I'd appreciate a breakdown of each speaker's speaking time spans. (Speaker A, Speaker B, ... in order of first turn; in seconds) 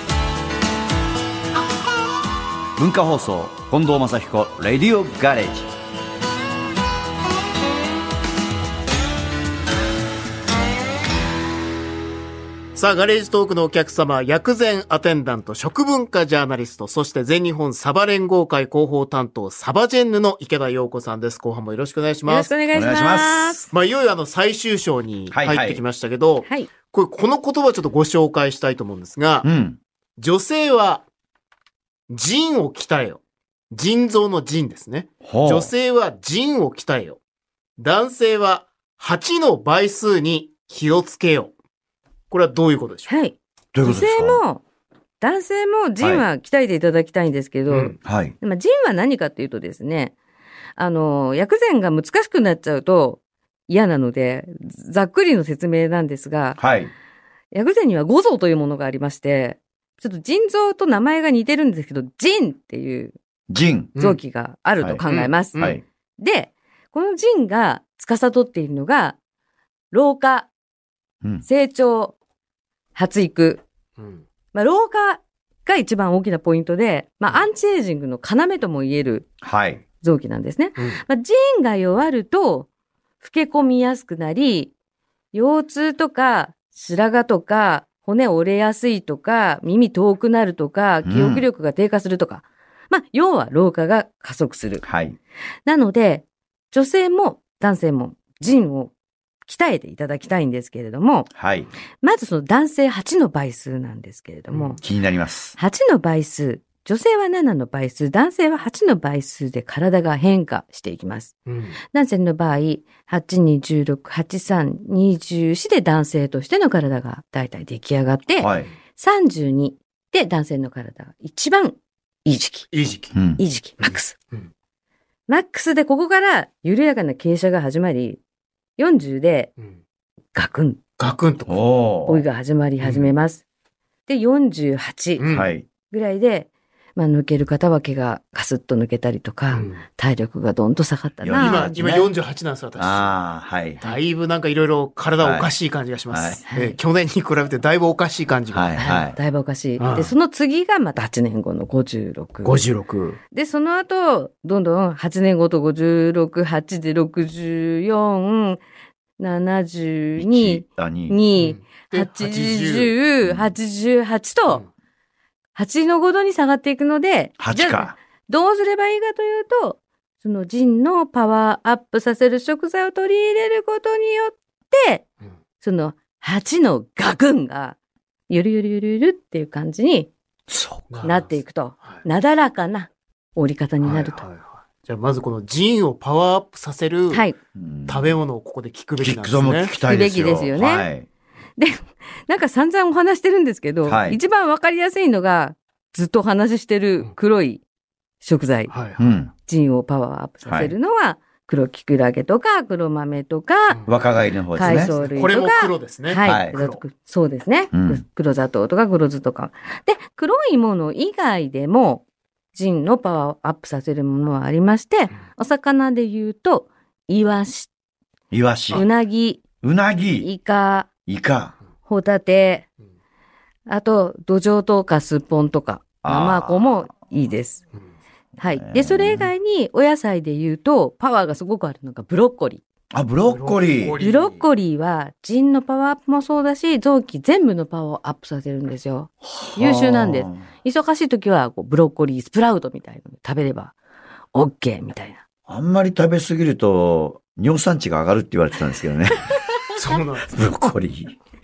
Speaker A: 2.8-5.7, 22.7-23.7, 25.3-25.8, 29.4-29.8, 35.2-35.7, 43.7-44.4, 48.0-48.4, 56.6-56.9, 63.5-64.0, 65.6-65.8, 79.4-79.8, 91.0-91.4, 94.8-95.2, 101.3-101.7, 104.8-105.6, 118.4-118.7, 123.1-123.4, 131.5-132.2, 135.3-135.7, 141.2-142.1, 142.8-143.8, 145.2-145.5, 146.1-146.4, 148.5-149.2, 160.2-161.2, 163.2-163.5, 167.4-168.0, 180.5-180.9, 187.6-188.2, 189.0-191.1, 193.9-194.2, 199.0-199.3, 200.5-200.7, 203.9-204.9, 206.2-206.5, 207.7-208.0, 218.3-218.9, 219.6-220.3, 221.1-221.6, 226.0-226.7, 228.5-229.3, 232.9-234.0, 239.2-240.4, 245.5-249.4, 250.3-251.2
Speaker B: 12.8-22.5, 23.7-29.5, 30.2-31.1, 32.1-37.2, 37.8-41.5, 42.3-43.1, 47.7-48.0, 64.0-64.2, 65.1-65.8, 74.0-74.2, 80.8-81.0, 104.5-104.8, 111.5-111.8, 122.7-123.1, 131.0-131.6, 132.8-133.1, 135.2-135.5, 139.5-139.8, 141.4-143.2, 143.8-148.9, 149.8-150.1, 152.4-153.2, 161.4-162.9, 180.9-181.3, 183.8-187.3, 187.9-189.7, 198.7-199.2, 204.6-206.8, 233.3-234.4, 249.7-250.4
Speaker C: 22.3-23.7, 43.1-44.6, 45.2-50.1, 50.8-56.6, 57.5-63.1, 64.0-65.7, 66.2-69.2, 69.9-70.5, 71.5-72.2, 73.0-73.6, 74.5-79.3, 80.0-82.7, 83.2-84.7, 85.3-94.8, 95.7-98.9, 99.5-101.3, 102.0-104.8, 105.6-111.3, 111.9-122.7, 123.4-124.2, 125.3-128.2, 128.8-129.5, 130.3-130.8, 132.1-133.4, 134.1-135.2, 135.9-141.7, 146.5-146.8, 148.8-152.6, 153.3-158.6, 159.2-164.6, 165.6-175.0, 175.6-177.8, 178.3-180.1, 181.0-184.2, 187.1-187.4, 189.8-190.9, 191.6-197.6, 198.2-198.7, 199.5-203.8, 204.6-217.7, 218.7-219.4, 220.2-220.9, 221.9-222.7, 223.7-227.6, 228.4-232.6, 234.0-243.7, 244.3-245.2